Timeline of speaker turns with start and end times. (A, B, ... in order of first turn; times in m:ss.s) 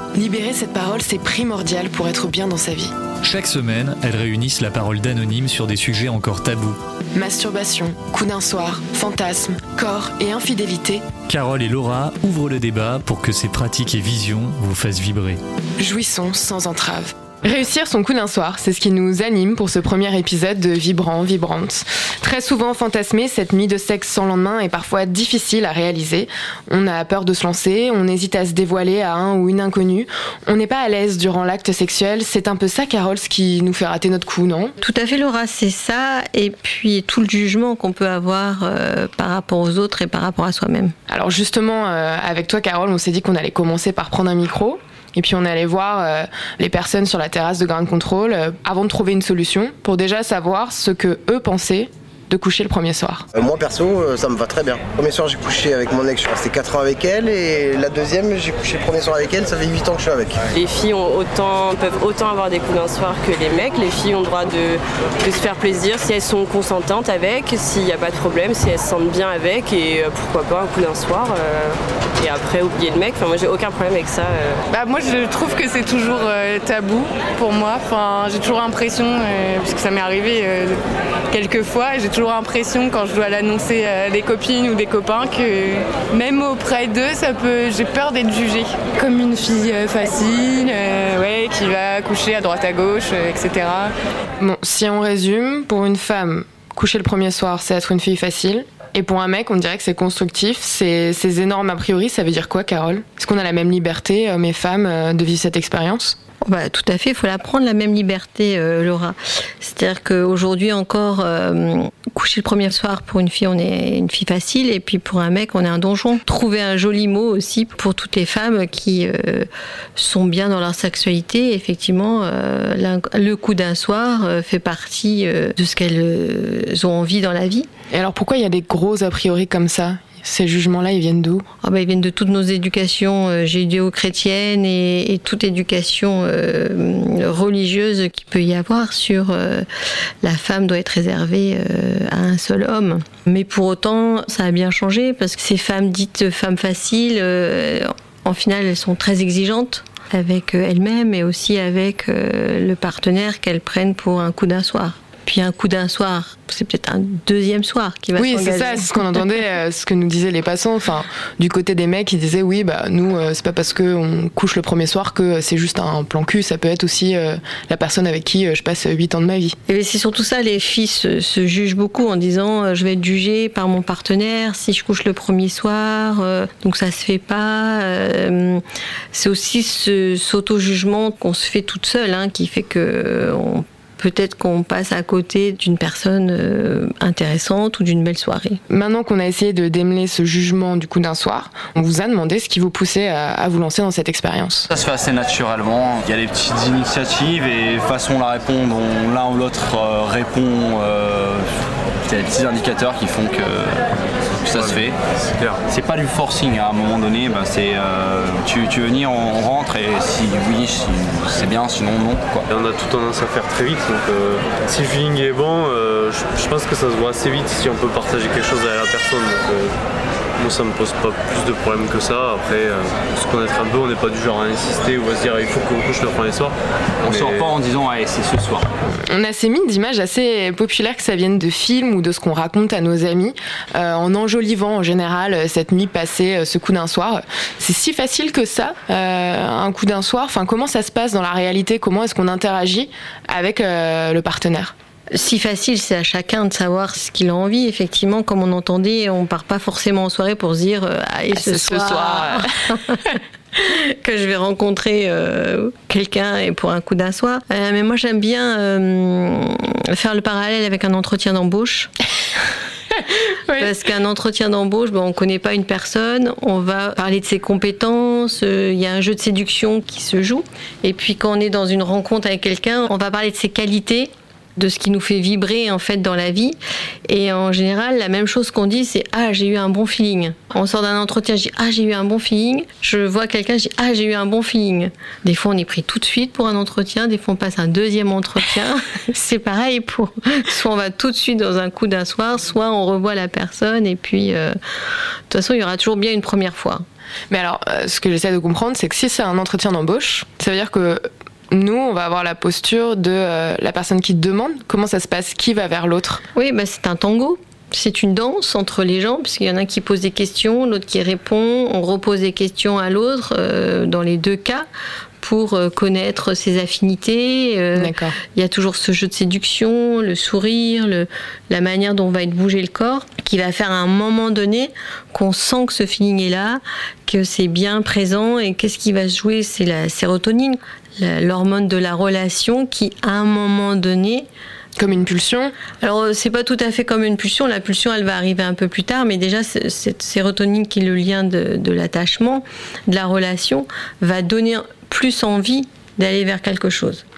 0:00.2-0:02.9 A
0:03.2-0:06.8 B
0:07.2-0:11.0 A
0:11.3-0:15.4 B
0:15.8-0:34.7 A
0:34.8-0:41.0 C
0:41.1-0:53.2 A
0:53.3-1:00.5 D
1:00.5-1:14.6 E
1:14.7-1:33.9 F
1:34.4-1:46.2 A
1:46.4-2:07.7 C
2:07.9-2:11.4 A
2:11.6-2:19.7 C
2:20.2-2:38.9 C
2:38.2-2:49.6 A
2:49.7-3:08.6 C
3:08.7-3:14.7 A
3:14.7-3:21.5 G
3:22.0-3:23.8 G
3:24.4-3:25.0 G
3:24.5-3:25.6 H
3:25.7-3:32.5 G
3:32.5-3:39.7 H
3:40.4-3:47.6 H
3:47.0-3:48.7 G
3:49.1-4:04.7 A
4:05.1-4:21.9 C
4:11.3-4:12.5 A
4:23.5-4:54.6 C
4:55.3-4:56.8 C
4:57.3-5:06.2 A
5:06.4-5:14.7 C
5:15.2-5:34.3 C
5:17.8-5:18.2 A
5:34.8-5:35.5 A
5:35.8-5:47.0 C